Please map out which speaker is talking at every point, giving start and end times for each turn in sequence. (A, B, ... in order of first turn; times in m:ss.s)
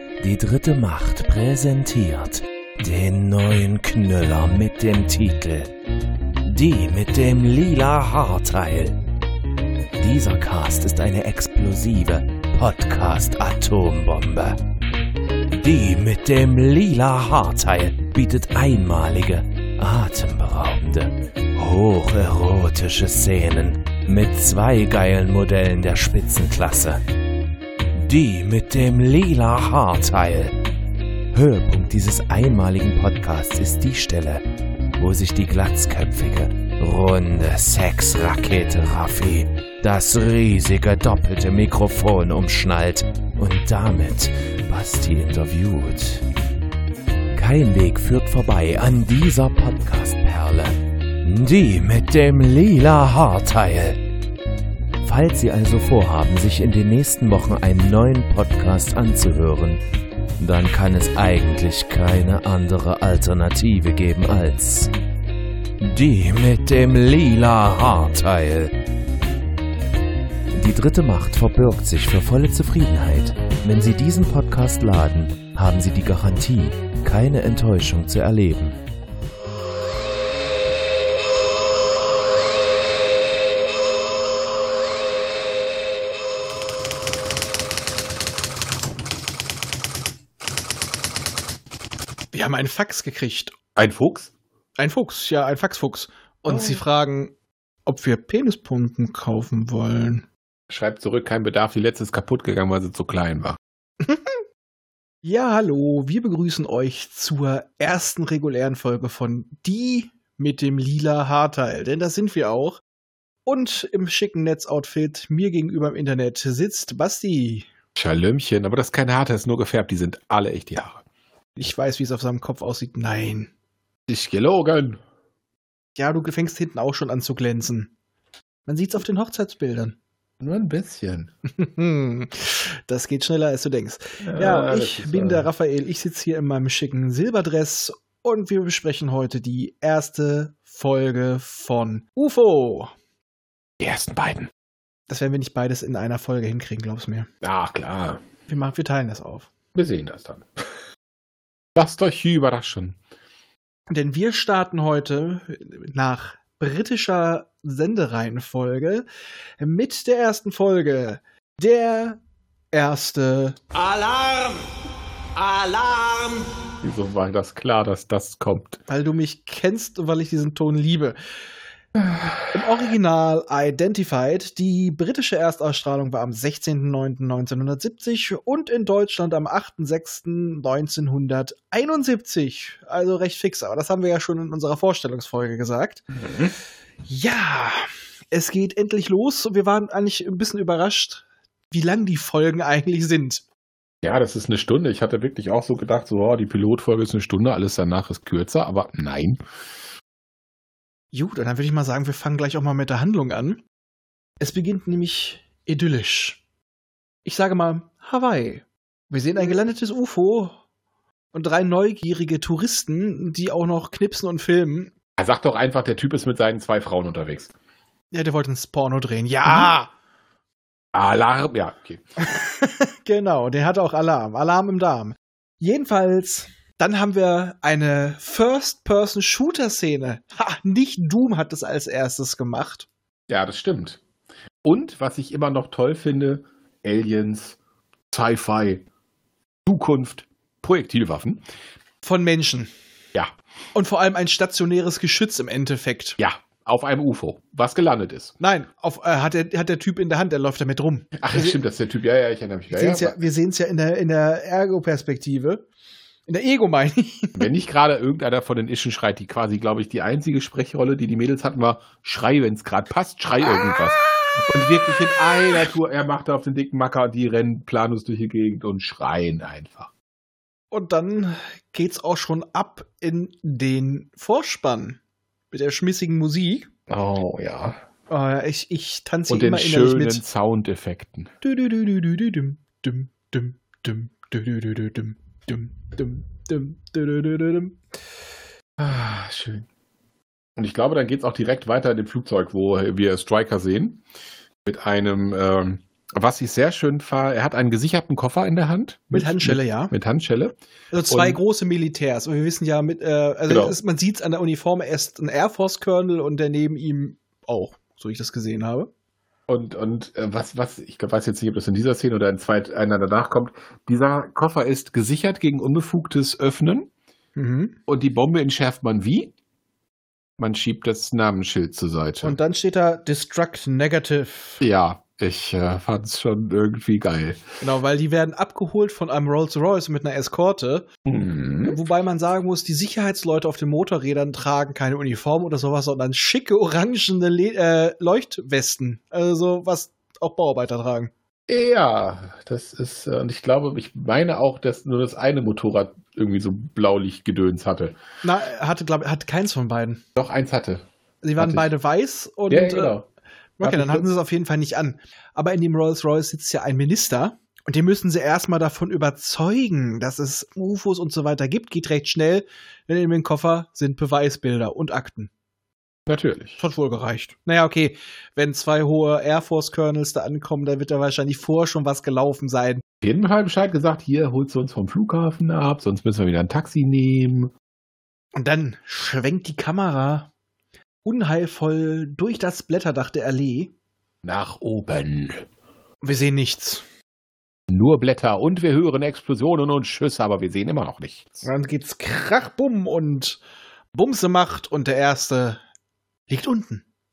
0:00.2-0:05.7 A
0:06.4-0:09.0 A
0:10.0-0:14.6 A
0:15.6-0:27.0 A
0:27.9-0:30.6 A
0:31.3-0:34.4 A
0:35.0-0:46.3 A
0:47.3-0:54.0 A
0:55.0-0:59.8 A
1:00.4-1:04.9 A
1:05.8-1:08.8 A
1:10.5-1:18.8 A
1:32.3-1:33.6 B
1:33.8-1:34.3 C
1:34.8-1:37.3 B
1:36.5-1:36.8 C
1:37.9-1:40.2 B
1:40.7-1:43.6 C
1:44.0-1:44.4 B
1:45.2-1:52.8 B
1:53.5-1:57.7 B
1:58.0-2:01.0 C
2:01.6-2:03.5 B
2:04.1-2:05.0 C
2:06.0-2:07.9 B
2:08.7-2:10.0 B
2:10.4-2:11.3 C
2:11.6-2:22.9 B
2:14.2-2:15.5 C
2:23.8-2:24.5 C
2:25.1-2:27.3 B
2:27.4-2:28.2 C
2:28.5-2:29.5 B
2:29.7-2:30.5 C
2:31.8-2:33.0 C
2:33.9-2:39.1 B
2:39.6-2:42.2 B
2:42.7-2:43.6 B
2:43.9-2:44.5 C
2:45.4-2:46.2 C
2:46.8-2:48.8 C
2:48.9-2:51.2 B
2:52.0-2:52.8 C
2:52.5-3:06.0 B
3:06.1-3:06.5 C
3:07.1-3:13.4 B
3:14.0-3:19.4 C
3:21.1-3:23.6 B
3:24.4-3:26.4 B
3:27.2-3:30.6 B
3:31.3-3:34.9 B
3:35.2-3:37.5 C
3:38.1-3:39.9 B
3:40.9-3:42.0 C
3:42.2-3:52.9 B
3:53.3-3:54.0 C
3:54.6-3:57.6 C
3:58.1-3:58.8 C
3:59.6-4:01.4 C
4:02.0-4:02.7 B
4:03.7-4:06.2 B
4:06.2-4:08.4 C
4:08.4-4:11.6 B
4:11.2-4:13.2 C
4:12.7-4:15.6 B
4:16.3-4:17.5 B
4:17.4-4:29.9 C
4:30.7-4:35.0 B
4:35.5-4:36.7 B
4:36.9-4:37.8 C
4:38.1-4:40.2 B
4:39.3-4:41.3 C
4:41.4-4:47.8 B
4:48.8-4:49.6 C
4:50.6-4:54.0 C
4:54.6-5:00.6 C
4:59.1-4:59.9 B
5:00.9-5:08.9 B
5:01.1-5:01.4 C
5:03.5-5:03.8 C
5:09.5-5:16.9 C
5:17.4-5:17.8 B
5:17.9-5:19.3 C
5:20.4-5:22.4 C
5:22.2-5:24.6 B
5:24.6-5:27.4 C
5:27.6-5:30.9 B
5:31.1-5:31.8 C
5:31.7-5:41.1 B
5:41.5-5:48.0 C
5:48.2-5:50.0 B
5:50.2-5:50.9 C
5:51.2-5:52.9 B
5:51.4-5:51.7 C
5:52.5-5:53.1 C
5:53.6-6:05.3 B
5:53.6-5:54.1 C
6:06.1-6:06.6 C
6:06.6-6:12.8 B
6:13.0-6:17.5 C
6:18.3-6:20.3 B
6:21.0-6:23.7 B
6:24.2-6:25.4 C
6:26.0-6:26.8 B
6:27.7-6:31.5 C
6:31.4-6:33.4 B
6:33.9-6:35.6 B
6:36.3-6:36.8 B